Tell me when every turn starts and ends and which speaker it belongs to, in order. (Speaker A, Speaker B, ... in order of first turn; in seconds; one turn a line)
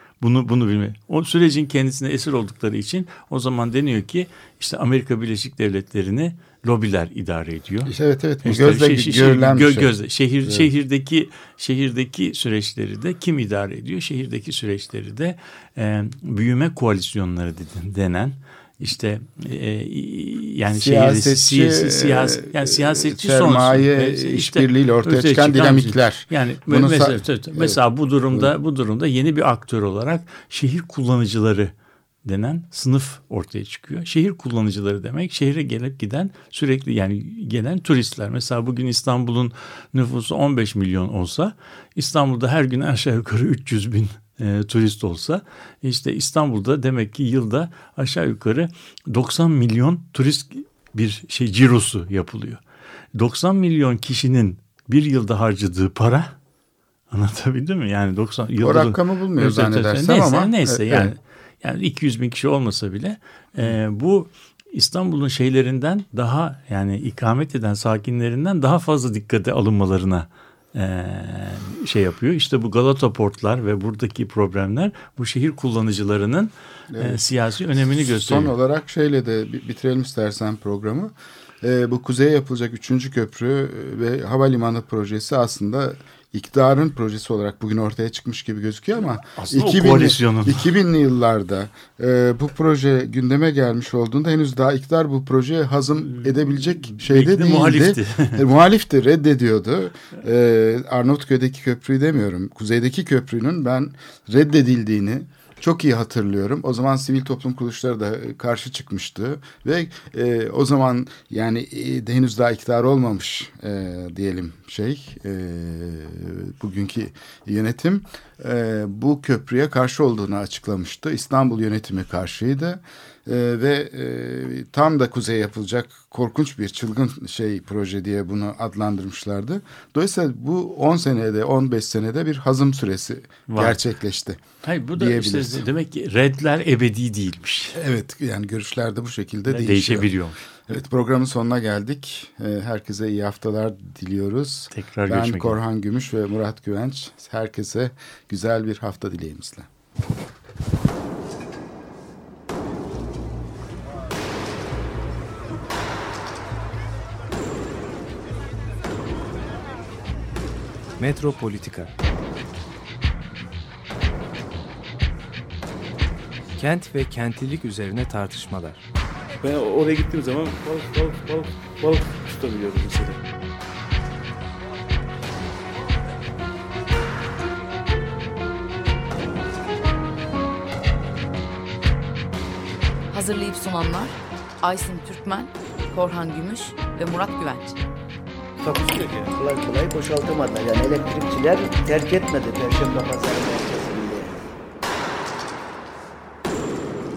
Speaker A: 0.2-31.7
Speaker B: 7.8-9.9
Speaker B: 20.7-28.5
Speaker A: 32.2-52.6
Speaker A: 53.1-56.3
Speaker A: 57.1-78.5
Speaker B: 58.6-61.1
Speaker B: 76.9-134.4
Speaker A: 89.1-90.7
Speaker A: 96.1-98.4
Speaker A: 133.5-133.8
Speaker A: 134.6-137.8
Speaker B: 134.9-135.6
Speaker B: 137.7-140.1
Speaker A: 139.5-140.5
Speaker B: 140.7-149.7
Speaker A: 144.7-145.6
Speaker C: 161.0-161.9
Speaker C: 166.6-168.8
Speaker D: 169.4-173.2
Speaker E: 183.1-187.8
Speaker D: 188.7-189.3
Speaker F: 189.3-194.4